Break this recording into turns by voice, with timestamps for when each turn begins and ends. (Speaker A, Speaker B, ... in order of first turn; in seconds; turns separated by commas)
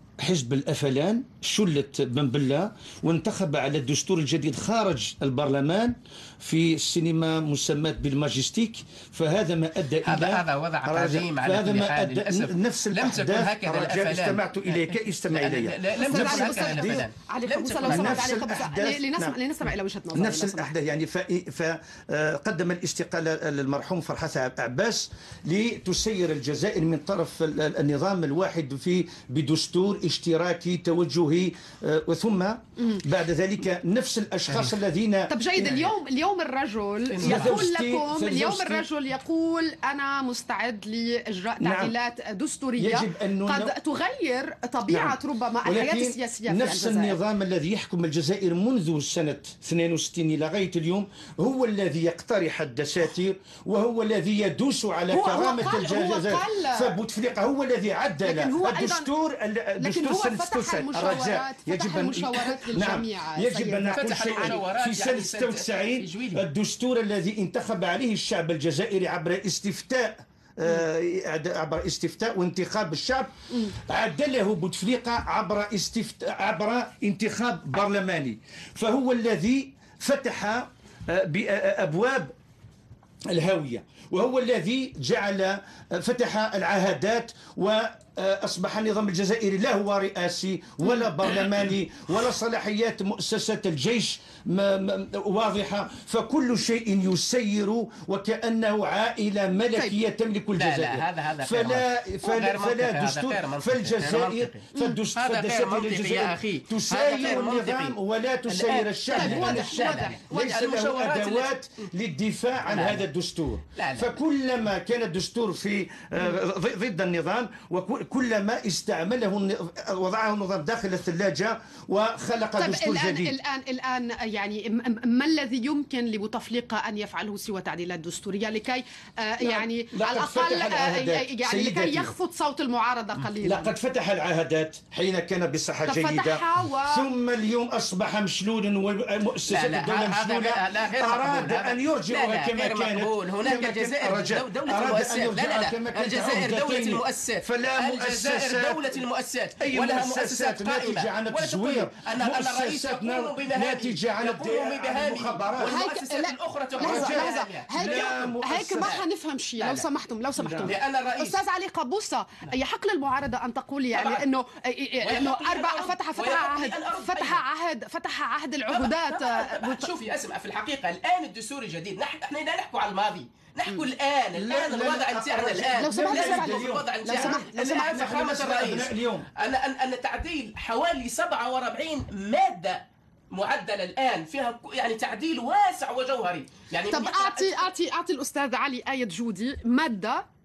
Speaker A: 0.2-17.1, Speaker B: 10.0-18.3, Speaker C: 16.0-20.7, Speaker A: 17.8-19.4, Speaker A: 20.1-35.9, Speaker C: 35.3-47.2, Speaker B: 37.1-37.6, Speaker A: 37.2-38.9, Speaker A: 41.6-41.9, Speaker A: 42.8-43.7, Speaker A: 44.9-82.3, Speaker C: 55.1-57.0, Speaker C: 58.2-59.1, Speaker C: 59.8-64.5, Speaker B: 63.9-66.5, Speaker A: 83.3-123.3, Speaker B: 100.6-108.0, Speaker B: 108.5-111.9, Speaker C: 109.2-110.4, Speaker B: 112.7-113.1, Speaker B: 113.8-114.2, Speaker C: 122.6-133.7, Speaker A: 129.4-132.2, Speaker A: 133.4-149.0, Speaker C: 135.9-137.1, Speaker B: 139.5-159.0, Speaker A: 149.6-155.8, Speaker C: 155.6-169.9, Speaker A: 156.8-159.0, Speaker B: 159.6-159.9, Speaker A: 160.4-160.8, Speaker B: 160.6-161.4, Speaker B: 163.9-164.2, Speaker B: 165.0-167.4, Speaker B: 168.7-182.8, Speaker A: 174.4-179.3, Speaker C: 175.8-178.0, Speaker B: 183.3-187.7, Speaker C: 186.9-190.2